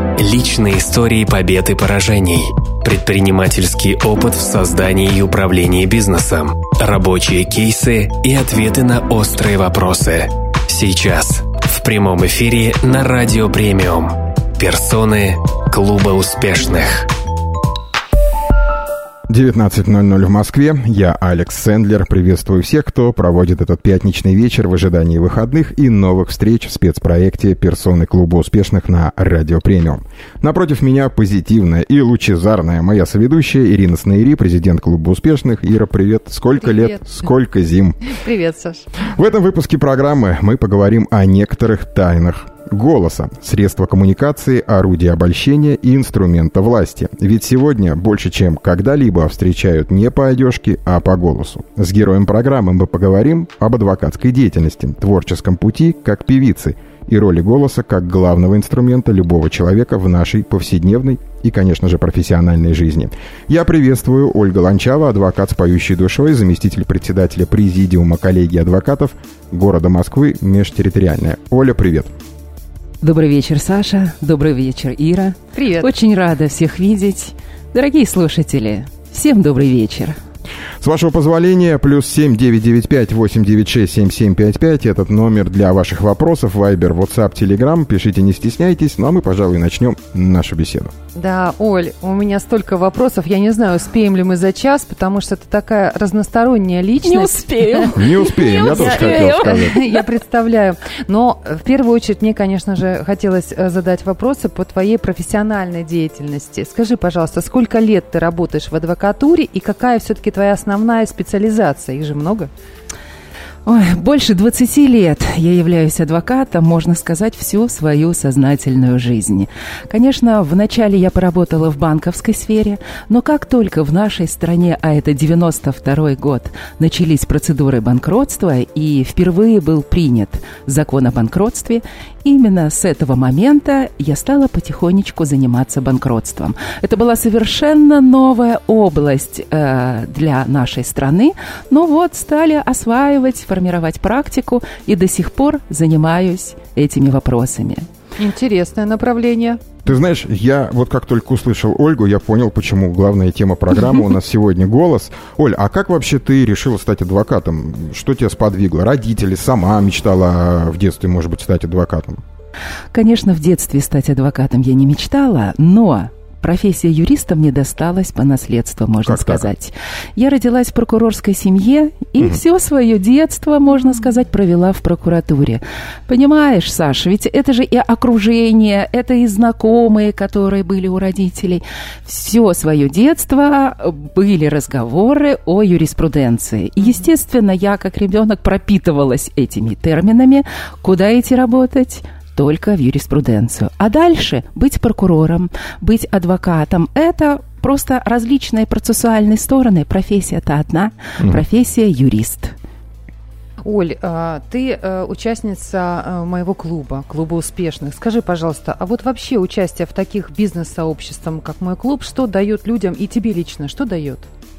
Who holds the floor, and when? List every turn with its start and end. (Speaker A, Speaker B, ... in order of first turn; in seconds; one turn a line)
Speaker A: 0.2-17.1
Speaker B: 19.3-38.2
Speaker C: 36.6-37.2
Speaker C: 38.0-38.9
Speaker B: 39.0-72.1
Speaker D: 73.0-80.2
Speaker C: 75.5-75.9
Speaker B: 80.8-90.9
Speaker C: 91.2-112.5
Speaker D: 97.0-100.0
Speaker B: 97.9-99.8
Speaker D: 113.7-147.8
Speaker C: 148.2-149.7
Speaker B: 149.8-162.2
Speaker D: 162.9-202.6
Speaker B: 169.0-169.5
Speaker C: 186.8-187.1
Speaker C: 203.6-214.2